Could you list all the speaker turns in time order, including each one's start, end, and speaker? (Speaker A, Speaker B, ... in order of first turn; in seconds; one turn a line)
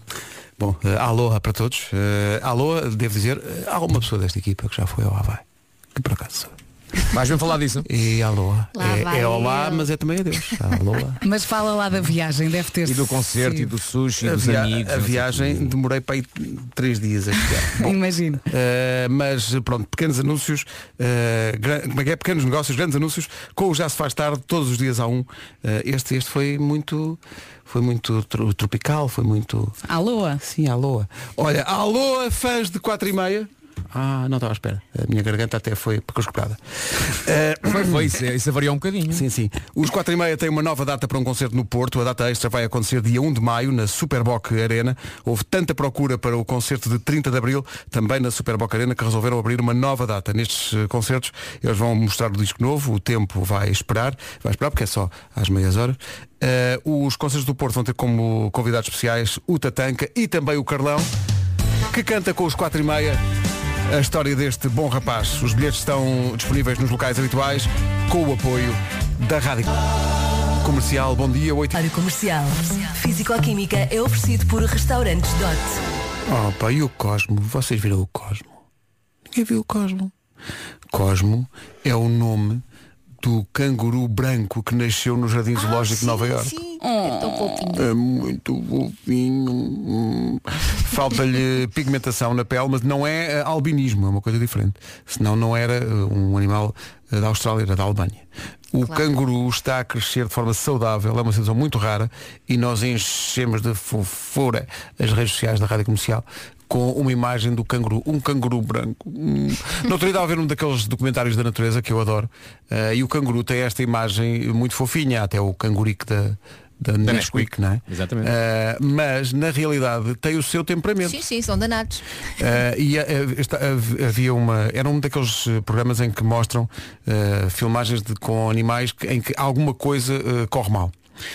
Speaker A: 0.6-5.4
Speaker A: 5.9-6.5
Speaker B: 7.1-7.9
Speaker A: 7.8-11.2
Speaker C: 8.7-9.9
Speaker D: 11.2-13.7
Speaker B: 12.8-15.7
Speaker A: 14.2-29.8
Speaker D: 17.8-18.4
Speaker D: 29.9-30.4
Speaker A: 30.4-38.1
Speaker B: 37.6-39.2
Speaker A: 39.1-61.1
Speaker A: 61.9-63.2
Speaker A: 63.9-69.8
Speaker A: 70.6-71.8
Speaker E: 71.7-75.8
Speaker A: 76.3-78.5
Speaker A: 79.3-80.1
Speaker A: 80.9-82.6
Speaker A: 83.2-86.5
Speaker C: 85.5-87.8
Speaker D: 86.8-87.6
Speaker A: 87.7-121.2
Speaker C: 98.8-99.0
Speaker B: 117.0-118.3
Speaker C: 121.0-122.0
Speaker A: 122.4-130.9